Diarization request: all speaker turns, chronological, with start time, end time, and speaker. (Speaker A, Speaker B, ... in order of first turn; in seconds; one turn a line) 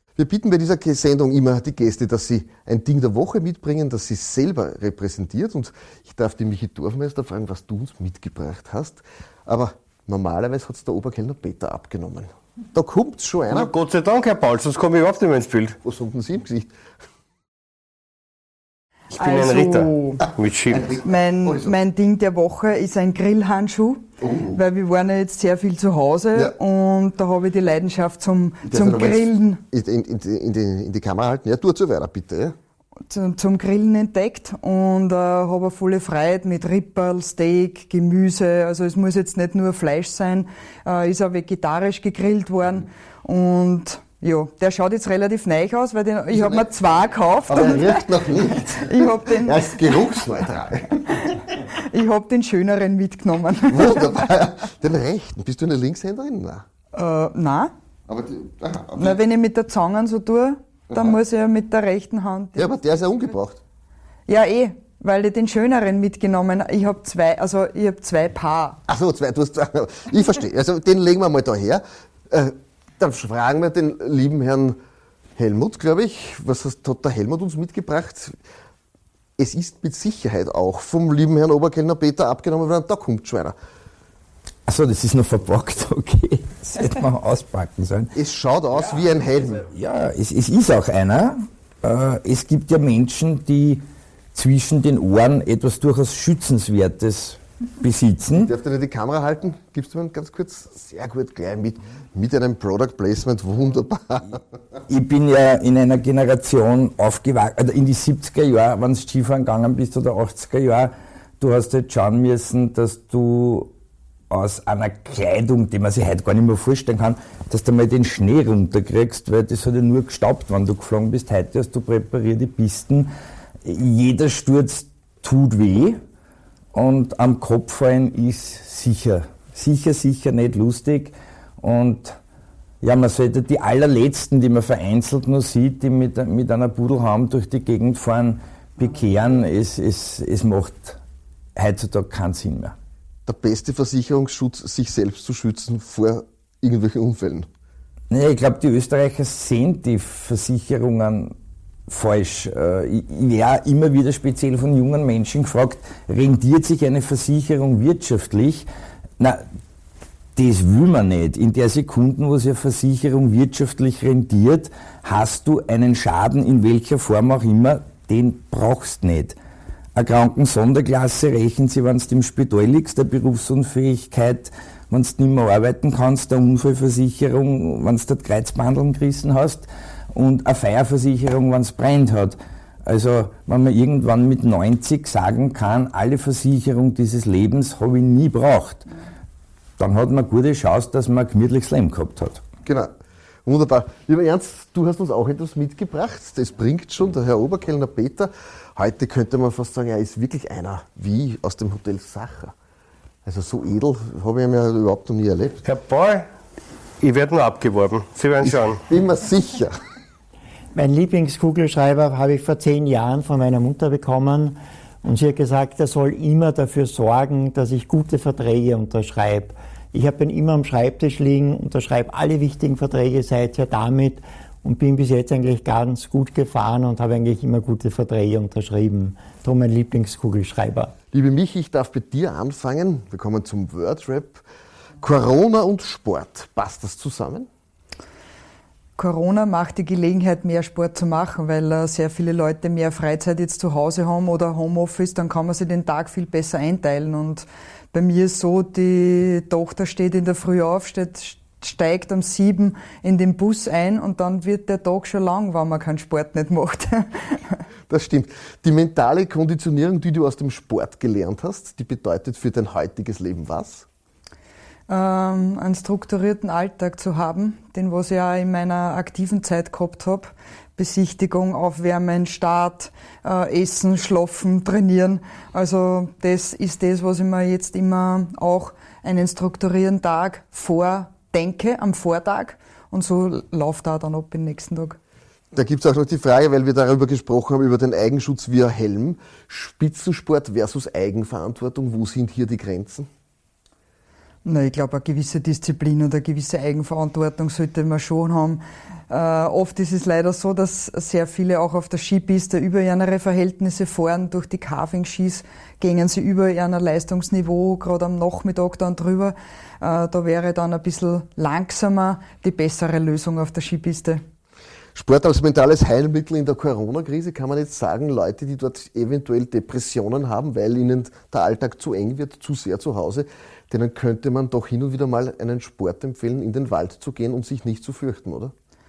Speaker A: 0.2-13.7
Speaker B: 13.5-15.8
Speaker A: 15.8-16.7
Speaker B: 19.1-20.9
Speaker C: 19.2-20.2
Speaker A: 20.7-21.7
Speaker C: 20.9-29.6
Speaker A: 24.2-24.6
Speaker A: 28.6-32.6
Speaker C: 33.1-48.1
Speaker A: 46.3-46.6
Speaker A: 47.5-51.3
Speaker C: 48.6-49.9
Speaker C: 51.2-54.2
Speaker A: 53.7-56.6
Speaker C: 56.9-57.7
Speaker A: 58.1-59.2
Speaker C: 59.0-62.7
Speaker A: 60.9-61.2
Speaker A: 62.6-63.6
Speaker C: 64.3-68.8
Speaker A: 68.9-74.8
Speaker A: 75.4-78.4
Speaker A: 79.4-83.5
Speaker D: 84.7-88.1
Speaker A: 88.1-89.7
Speaker D: 89.6-93.8
Speaker D: 94.3-98.5
Speaker A: 98.3-104.4
Speaker D: 104.9-113.7
Speaker D: 114.3-123.1
Speaker D: 123.6-126.0
Speaker D: 126.7-132.2
Speaker D: 132.8-141.0
Speaker D: 141.6-142.7
Speaker A: 143.2-147.5
Speaker D: 148.1-151.3
Speaker D: 151.9-158.7
Speaker D: 159.2-159.4
Speaker D: 160.4-169.4
Speaker D: 169.9-188.9
Speaker D: 189.8-192.4
Speaker A: 192.6-192.9
Speaker A: 193.4-202.5
Speaker A: 203.2-205.6
Speaker B: 205.6-206.3
Speaker B: 207.0-208.8
Speaker A: 208.4-209.7
Speaker E: 210.7-230.9
Speaker A: 231.1-234.4
Speaker A: 235.0-237.5
Speaker C: 239.0-257.6
Speaker A: 257.9-263.9
Speaker C: 264.9-285.0
Speaker A: 285.5-293.1
Speaker C: 294.4-314.2
Speaker A: 314.9-328.5